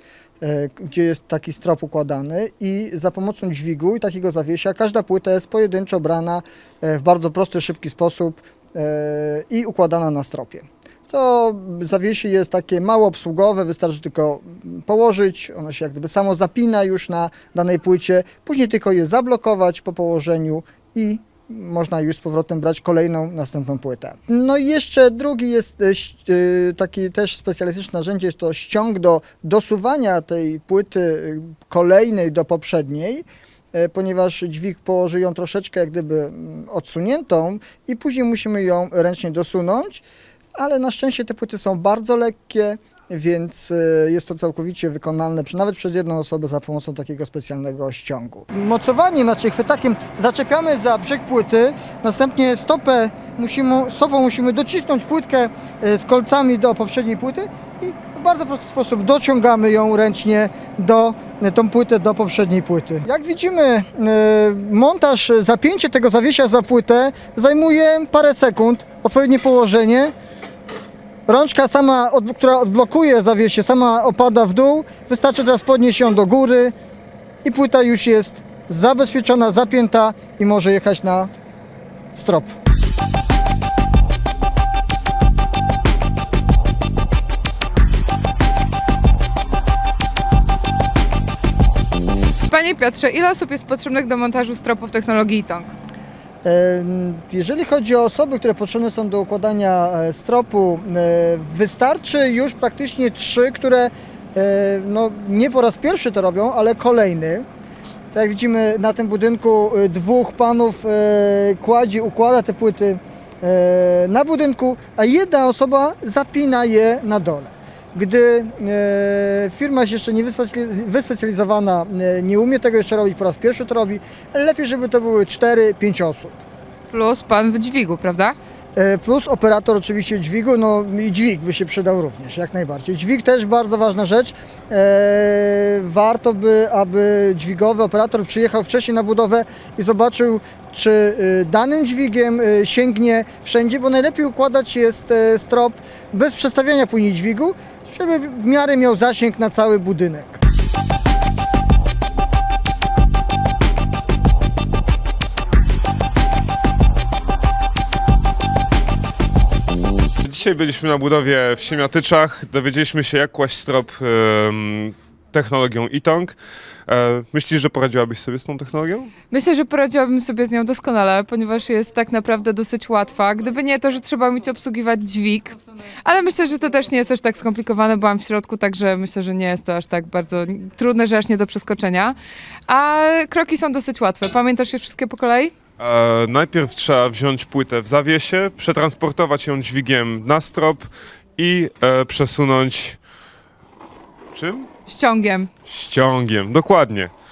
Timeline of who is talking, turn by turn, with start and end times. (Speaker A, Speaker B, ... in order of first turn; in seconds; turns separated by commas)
Speaker A: 0.4-40.0, Speaker A: 40.5-70.1, Speaker A: 71.3-76.7, Speaker A: 77.4-81.3, Speaker A: 82.1-82.5, Speaker B: 92.5-95.7, Speaker A: 96.4-107.4, Speaker A: 108.1-126.4, Speaker B: 126.9-128.3, Speaker A: 128.7-150.4, Speaker C: 160.2-166.3, Speaker C: 166.9-169.1, Speaker B: 169.3-182.2, Speaker B: 182.7-185.5, Speaker C: 185.8-193.0, Speaker C: 194.3-194.7, Speaker B: 194.9-195.5, Speaker C: 195.7-197.1